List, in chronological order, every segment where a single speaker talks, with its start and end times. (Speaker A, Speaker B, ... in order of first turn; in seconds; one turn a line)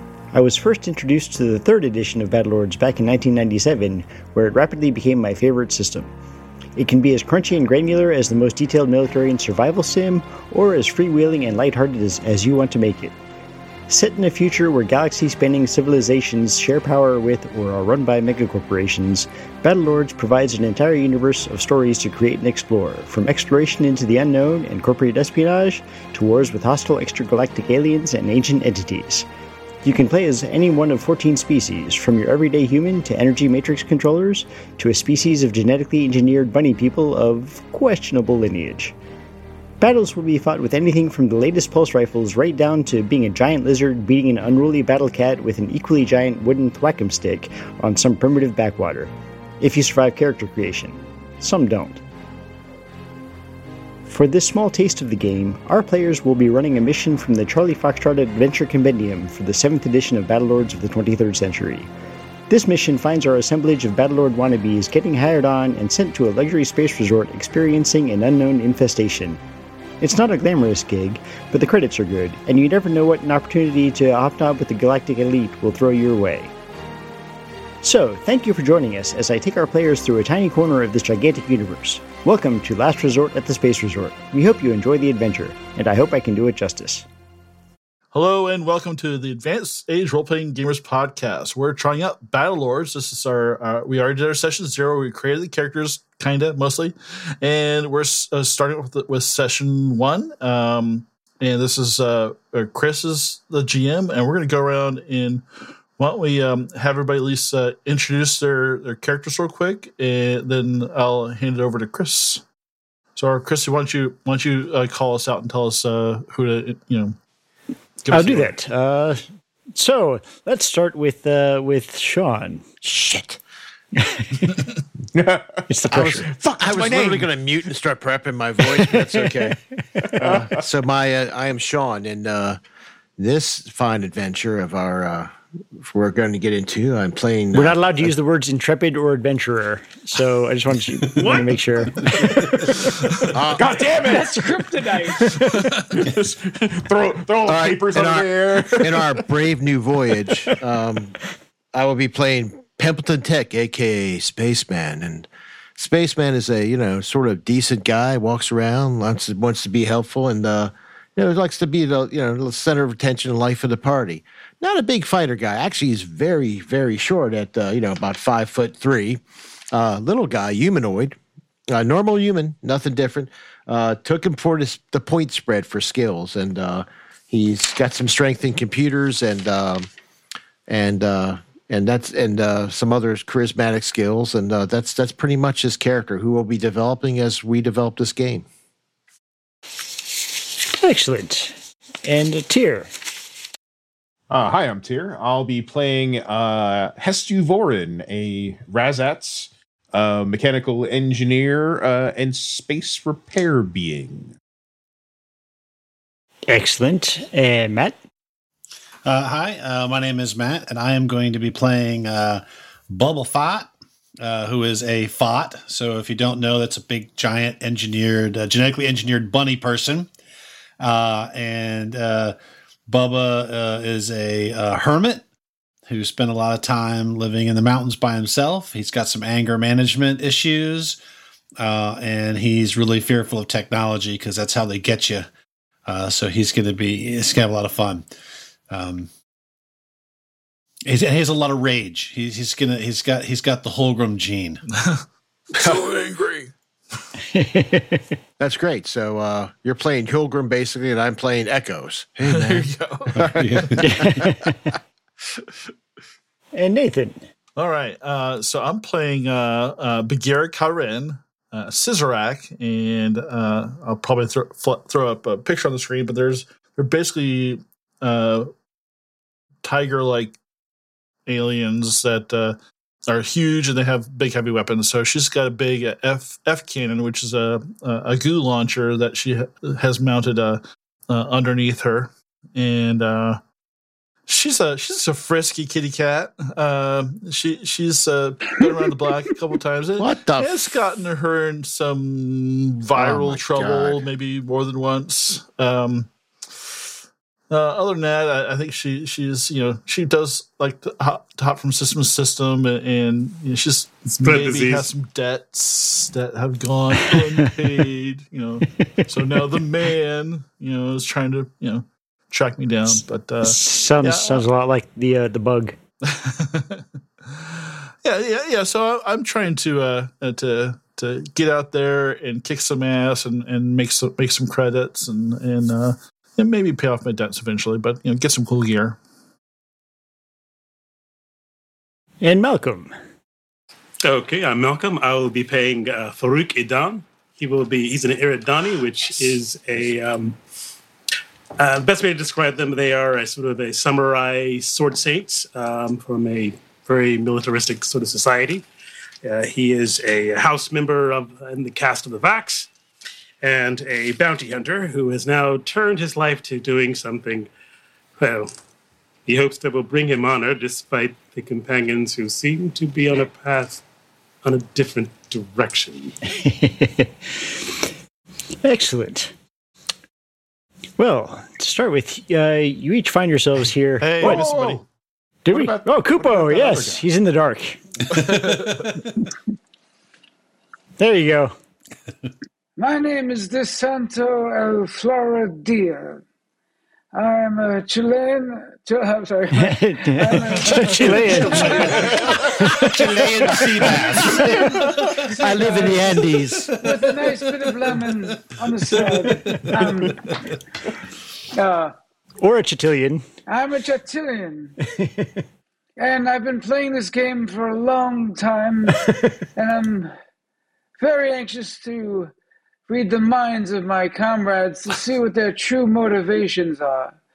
Speaker A: 0.3-6.1
Speaker A: 6.8-13.2
Speaker A: 13.9-29.3
Speaker A: 29.8-39.0
Speaker A: 39.8-52.0
Speaker A: 54.1-61.9
Speaker A: 62.5-69.4
Speaker A: 70.0-76.5
Speaker A: 77.8-87.1
Speaker B: 88.1-105.4
Speaker B: 106.0-112.4
Speaker B: 113.2-117.2
Speaker B: 118.0-118.5
Speaker A: 118.1-119.2
Speaker A: 119.8-123.4
Speaker A: 124.0-124.6
Speaker C: 125.1-125.6
Speaker A: 125.7-126.3
Speaker D: 125.9-129.6
Speaker C: 126.5-127.3
Speaker A: 128.7-130.1
Speaker C: 130.2-130.5
Speaker D: 130.2-132.6
Speaker D: 133.2-137.8
Speaker A: 137.5-142.9
Speaker E: 141.1-141.6
Speaker C: 142.1-142.8
Speaker D: 143.3-143.9
Speaker C: 143.5-144.6
Speaker F: 143.9-145.3
Speaker A: 145.2-145.6
Speaker C: 145.3-149.3
Speaker D: 147.5-151.2
Speaker D: 151.7-169.2
Speaker D: 169.7-171.2
Speaker D: 171.7-179.9
Speaker D: 180.7-188.5
Speaker A: 190.7-192.9
Speaker C: 194.3-204.3
Speaker A: 206.5-207.9
Speaker G: 209.1-220.1
Speaker G: 220.8-222.4
Speaker G: 222.9-225.2
Speaker G: 225.9-231.0
Speaker G: 231.6-235.3
Speaker G: 235.9-238.1
Speaker G: 238.7-239.1
Speaker G: 240.9-244.6
Speaker B: 244.8-245.0
Speaker B: 245.5-246.5
Speaker A: 247.2-248.2
Speaker D: 248.4-254.3
Speaker B: 252.2-253.7
Speaker G: 253.2-254.1
Speaker A: 253.8-254.7
Speaker A: 256.6-257.2
Speaker B: 257.6-268.5
Speaker B: 269.6-270.4
Speaker B: 271.3-272.6
Speaker B: 273.1-283.4
Speaker B: 284.3-296.1
Speaker D: 290.0-290.7
Speaker D: 292.9-294.1
Speaker B: 297.5-314.4
Speaker E: 304.2-304.9
Speaker A: 307.0-307.5
Speaker A: 308.8-309.4
Speaker A: 313.4-315.8
Speaker B: 316.0-329.0
Speaker A: 332.2-332.9
Speaker E: 334.0-340.4
Speaker E: 341.6-348.7
Speaker E: 349.2-352.7
Speaker E: 353.4-357.5
Speaker E: 358.2-358.5
Speaker E: 359.3-363.8
Speaker E: 364.4-366.2
Speaker A: 366.3-367.9
Speaker A: 368.6-369.3
Speaker A: 371.0-374.5
Speaker B: 374.0-374.8
Speaker C: 374.2-374.9
Speaker A: 375.5-377.8
Speaker C: 375.5-377.1
Speaker B: 378.1-378.9
Speaker A: 381.0-381.5
Speaker F: 382.8-386.2
Speaker F: 387.1-392.5
Speaker A: 389.5-392.1
Speaker B: 390.7-392.4
Speaker C: 391.6-393.9
Speaker A: 392.6-393.2
Speaker G: 392.8-395.1
Speaker D: 392.9-396.7
Speaker F: 395.5-396.0
Speaker F: 396.8-400.3
Speaker B: 398.9-400.3
Speaker F: 401.5-401.9
Speaker A: 402.4-403.3
Speaker F: 403.5-404.8
Speaker A: 404.9-405.4
Speaker F: 406.0-410.1
Speaker F: 411.0-412.3
Speaker F: 412.9-417.2